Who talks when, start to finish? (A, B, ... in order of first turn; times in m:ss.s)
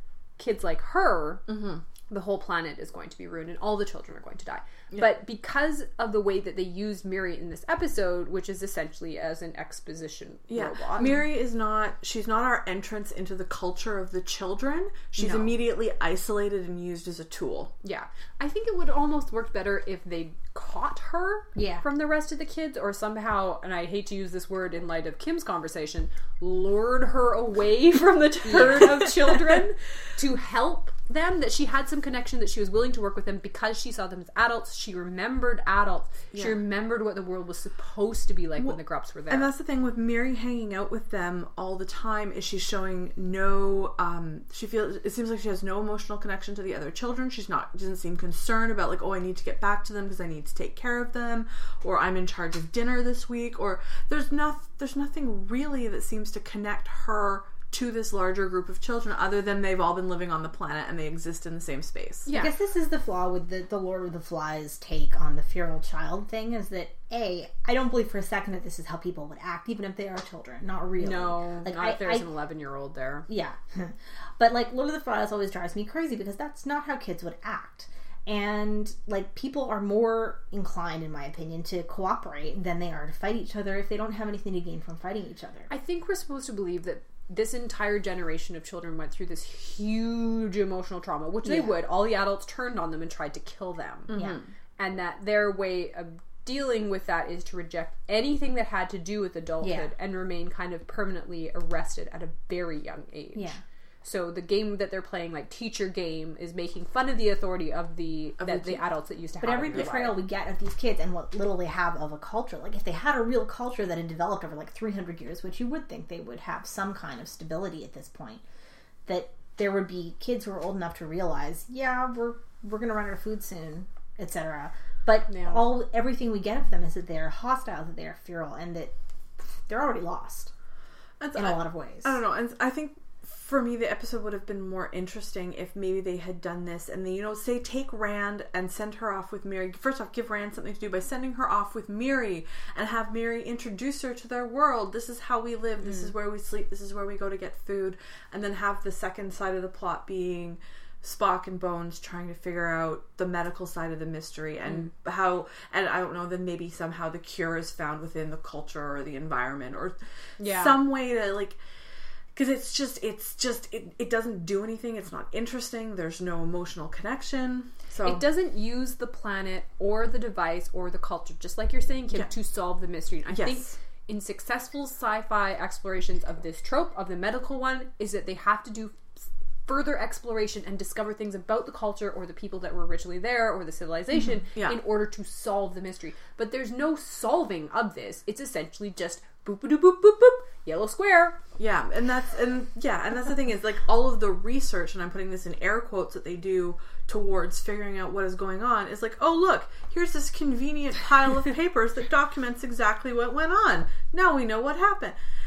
0:00.4-0:01.5 A
0:01.5-0:01.8 B
0:02.1-0:11.2 A
0:10.5-0:17.7 B
0:15.2-0:15.5 C
0:17.8-0:39.5 A
0:21.6-0:21.8 C
0:28.4-0:29.0 C
0:36.3-0:36.6 B
0:39.3-1:02.3 B
1:02.3-1:02.5 A
1:02.3-1:12.3 C
1:11.0-1:13.3 A
1:13.3-1:25.7 C
1:25.7-1:34.2 A
1:31.4-1:31.8 C
1:34.1-1:34.5 B
1:34.1-1:34.4 C
1:34.8-1:50.2 A
1:39.6-1:39.9 C
1:43.3-1:43.6 C
1:48.4-1:48.8 B
1:49.4-1:58.4 C
1:49.7-1:50.0 B
1:59.0-2:08.9 C
2:05.3-2:05.7 A
2:09.5-2:10.5 C
2:11.2-2:41.6 B
2:11.4-2:12.2 C
2:40.4-2:40.8 A
2:42.3-2:48.2 B
2:48.0-3:11.4 A
2:53.3-2:53.8 B
3:04.6-3:04.8 B
3:11.6-3:25.2 B